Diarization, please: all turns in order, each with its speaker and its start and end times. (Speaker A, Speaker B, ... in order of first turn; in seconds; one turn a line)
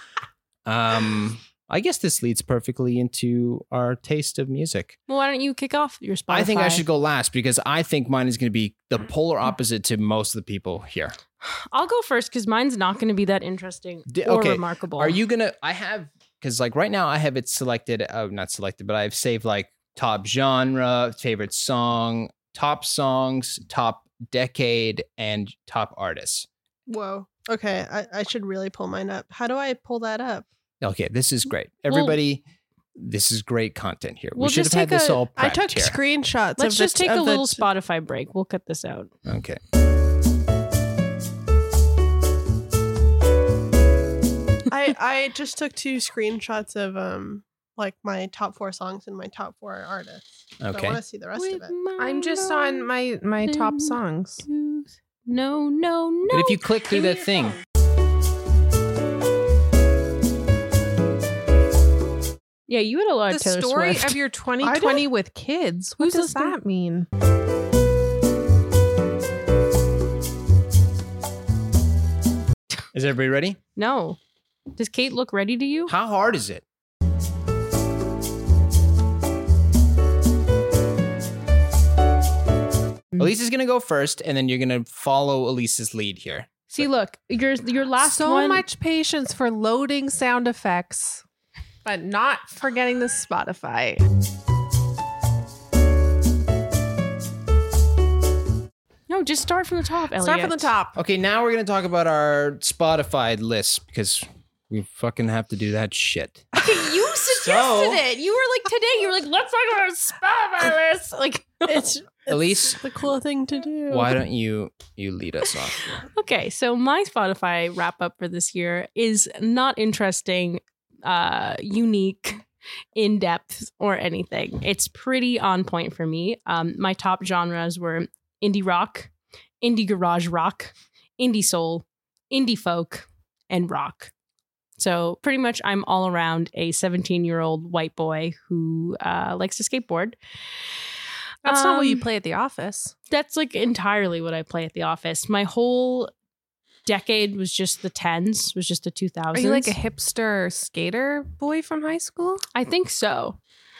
Speaker A: 0.7-5.0
Speaker B: 5.1-6.8
Speaker A: 6.3-11.2
Speaker B: 11.4-15.2
Speaker A: 14.1-26.5
Speaker C: 26.9-30.5
Speaker A: 30.8-32.4
Speaker B: 31.9-32.2
Speaker A: 33.0-36.0
Speaker B: 34.4-35.2
Speaker C: 35.4-37.7
Speaker B: 36.6-39.1
Speaker A: 39.3-39.6
Speaker C: 44.7-51.8
Speaker A: 50.6-51.0
Speaker B: 51.4-52.9
Speaker D: 52.0-54.4
Speaker B: 53.4-57.2
Speaker A: 56.3-57.6
Speaker B: 62.7-64.2
Speaker D: 63.3-67.1
Speaker B: 66.0-66.6
Speaker A: 72.9-73.6
Speaker B: 73.8-74.2
Speaker B: 74.8-75.9
Speaker A: 75.9-76.6
Speaker A: 83.2-86.7
Speaker B: 86.7-88.6
Speaker D: 88.0-91.2
Speaker D: 91.8-94.0
Speaker B: 99.1-100.7
Speaker D: 100.2-101.0
Speaker A: 101.0-106.5
Speaker B: 106.5-111.8
Speaker A: 107.4-108.0
Speaker C: 111.7-114.2
Speaker A: 112.3-112.8
Speaker A: 113.9-115.9
Speaker B: 115.9-122.5
Speaker B: 123.0-129.1
Speaker B: 129.6-134.1
Speaker B: 134.8-140.2
Speaker D: 141.4-142.9
Speaker B: 141.4-142.0
Speaker B: 143.1-146.1
Speaker B: 146.9-149.8
Speaker D: 149.3-152.4
Speaker B: 152.5-153.4